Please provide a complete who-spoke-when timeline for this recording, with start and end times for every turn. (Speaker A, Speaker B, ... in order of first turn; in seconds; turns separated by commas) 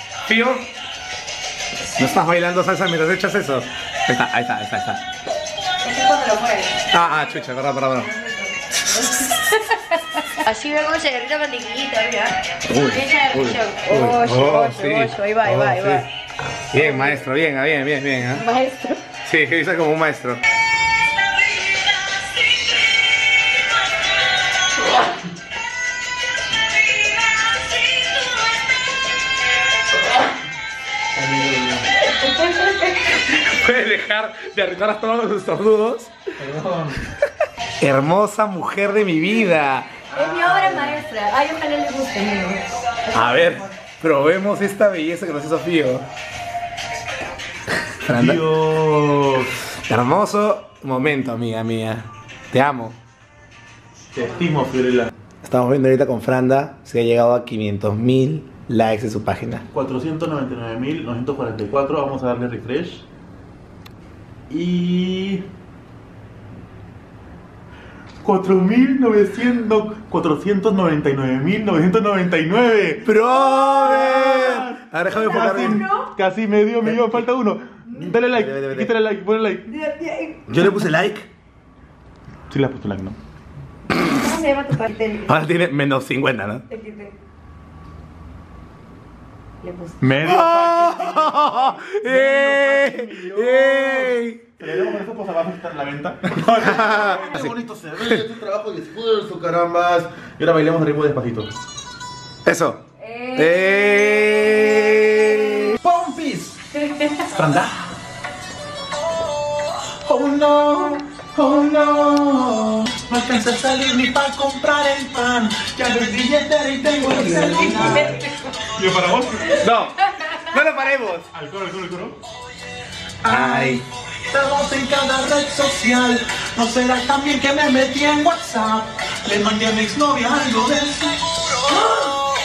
Speaker A: 0.2-0.7, Speaker A: 1.9-5.0, Speaker B: 5.8-16.1, Speaker A: 6.9-8.1, Speaker A: 12.6-16.1, Speaker A: 16.7-18.4, Speaker B: 16.7-17.2, Speaker B: 18.3-19.0, Speaker A: 19.2-20.4, Speaker C: 31.2-31.8, Speaker B: 32.2-32.8, Speaker A: 33.0-36.1, Speaker C: 36.4-37.1, Speaker A: 37.8-40.0, Speaker B: 40.1-42.6, Speaker A: 43.1-46.1, Speaker A: 47.9-48.4, Speaker C: 48.0-49.5, Speaker A: 49.7-53.0, Speaker C: 54.1-55.1, Speaker A: 55.4-59.6, Speaker C: 59.7-63.0, Speaker C: 64.5-65.5, Speaker C: 68.2-79.7, Speaker A: 73.0-75.8, Speaker B: 73.2-76.1, Speaker A: 76.8-77.2, Speaker A: 78.3-78.9, Speaker B: 79.7-80.4, Speaker A: 80.5-81.3, Speaker C: 82.5-83.2, Speaker B: 84.0-85.3, Speaker A: 85.2-86.7, Speaker B: 86.7-87.1, Speaker B: 89.6-90.0, Speaker C: 90.0-101.5, Speaker A: 90.2-94.6, Speaker A: 96.5-97.5, Speaker B: 96.9-97.2, Speaker A: 102.4-105.8, Speaker B: 103.0-105.4, Speaker C: 105.8-106.7, Speaker B: 106.8-107.2, Speaker C: 107.2-107.9, Speaker C: 110.0-119.7, Speaker A: 116.9-118.2, Speaker B: 117.4-118.6, Speaker A: 119.6-121.3, Speaker C: 121.3-122.2, Speaker C: 123.2-132.1, Speaker A: 123.2-123.8